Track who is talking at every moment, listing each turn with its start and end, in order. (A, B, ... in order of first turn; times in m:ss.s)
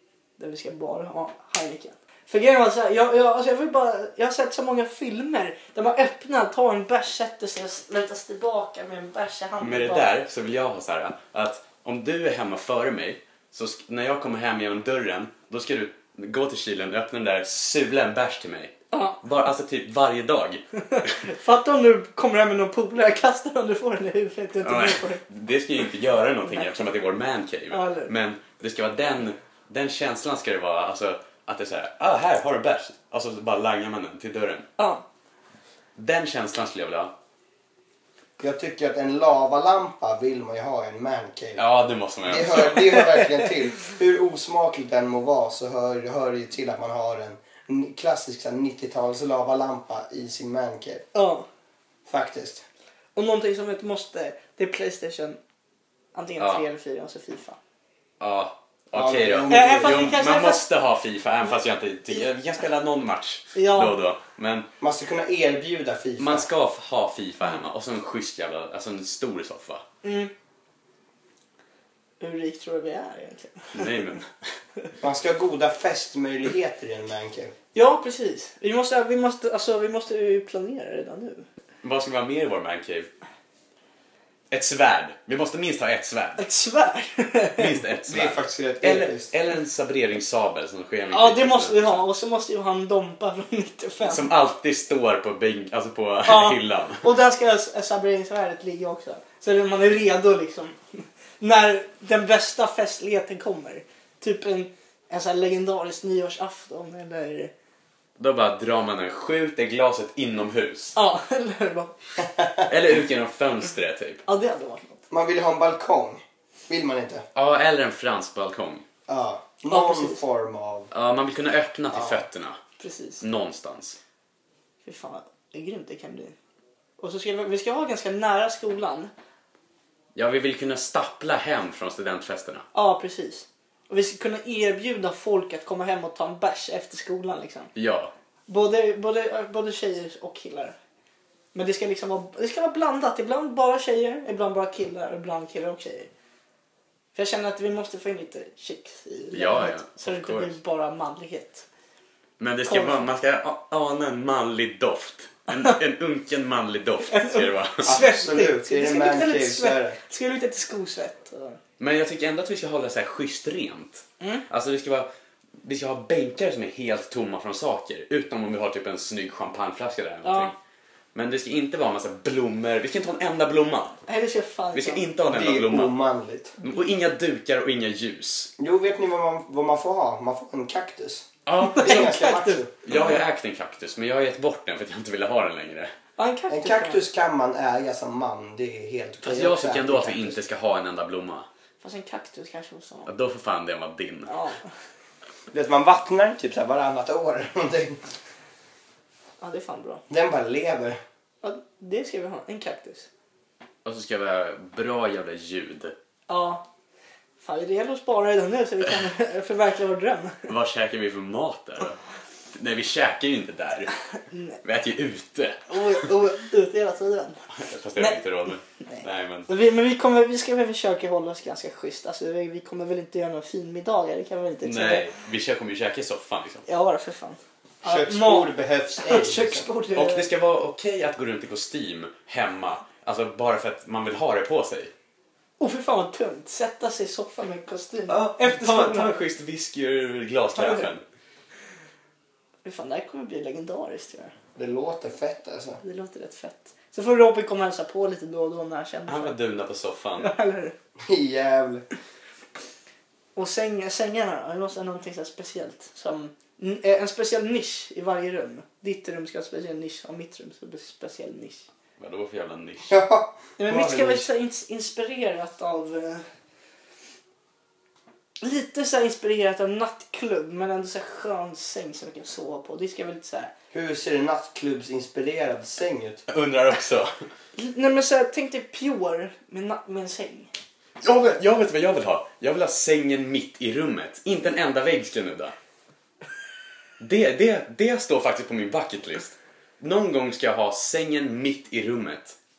0:00.4-0:10.1 A
0:09.6-0:21.2 B
0:18.9-0:19.2 A
0:20.9-0:25.2 A
0:24.6-0:34.7 B
0:27.7-0:28.1 A
0:34.8-0:35.0 A
0:36.0-0:37.1 B
0:38.4-0:41.6 C
0:41.6-0:43.2 B
0:42.2-0:51.0 C
0:51.1-0:51.4 A
0:52.0-0:52.6 C
0:53.2-0:55.4 A
0:56.1-0:57.6 A
0:56.4-0:56.6 B
0:58.2-1:04.7 B
0:58.9-1:00.1 C
0:59.5-1:00.6 A
1:03.5-1:04.0 A
1:04.8-1:06.5 C
1:06.2-1:09.8 B
1:10.0-1:10.3 A
1:12.2-1:14.0 A
1:13.7-1:14.5 B
1:15.0-1:17.5 C
1:17.7-1:21.4 A
1:21.8-1:23.1 B
1:24.5-1:26.4 B
1:26.4-1:27.8 A
1:27.6-1:32.0 B
1:28.1-1:29.3 C
1:31.1-1:34.3 A
1:34.0-1:37.0 B
1:36.2-1:47.5 A
1:48.2-1:51.0 B
1:51.0-1:52.0 A
1:52.2-1:52.7 C
1:52.7-1:54.2 B
1:54.2-1:55.0 A
1:55.1-1:57.2 C
1:57.3-1:58.8 B
1:59.1-2:00.9 C
1:59.7-2:00.2 A
2:00.9-2:02.6 B
2:01.9-2:02.2 C
2:02.8-2:03.2 A
2:03.2-2:04.0 B
2:04.8-2:06.3 A
2:07.0-2:09.1 A
2:10.1-2:12.6 B
2:12.7-2:17.7 A
2:17.7-2:18.1 B
2:18.5-2:20.8 A
2:21.5-2:26.1 A
2:27.1-2:31.6 A
2:29.3-2:30.5 B
2:32.4-2:37.9 B
2:32.6-2:33.1 A
2:37.1-2:41.6 A
2:37.8-2:40.0 C
2:41.8-2:45.1 B
2:44.2-2:44.4 A
2:45.6-2:50.6 B
2:50.2-2:50.5 A
2:51.1-2:54.0 B
2:54.1-2:55.0 A
2:54.7-2:55.9 B
2:55.2-2:56.6 C
2:56.6-2:58.5 B
2:58.6-3:02.7 C
3:01.4-3:02.2 B
3:01.7-3:03.2 A
3:02.8-3:05.9 B
3:06.2-3:07.0 A
3:06.5-3:10.4 C
3:09.2-3:11.5 B
3:11.8-3:13.1 A
3:13.0-3:14.3 B
3:14.3-3:14.6 A
3:15.5-3:18.0 C
3:19.4-3:20.0 A
3:20.1-3:21.0 C
3:21.4-3:23.1 A
3:23.8-3:25.9 B
3:26.3-3:26.6 A
3:27.4-3:30.5 A
3:30.5-3:32.0 B
3:32.5-3:33.9 B
3:34.3-3:34.6 A
3:34.6-3:36.1 B
3:35.7-3:37.4 A
3:37.5-3:39.5 B
3:38.8-3:45.1 A
3:44.6-3:46.6 B
3:46.7-3:50.3 A
3:47.8-3:49.6 C
3:49.9-3:54.9 B
3:55.6-3:59.2 A
3:58.1-4:01.0 B
4:00.6-4:00.9 A
4:02.6-4:04.3 A
4:04.6-4:05.8 C
4:05.8-4:09.4 A
4:09.1-4:10.3 B
4:10.2-4:10.7 A
4:11.0-4:11.8 C
4:13.4-4:21.7 A
4:22.0-4:23.0 B
4:22.9-4:24.2 C
4:23.6-4:26.2 A
4:28.4-4:33.5 A
4:33.7-4:36.2 C
4:36.3-4:37.1 B
4:37.6-4:40.5 A
4:41.0-4:45.5 B
4:47.0-4:52.4 B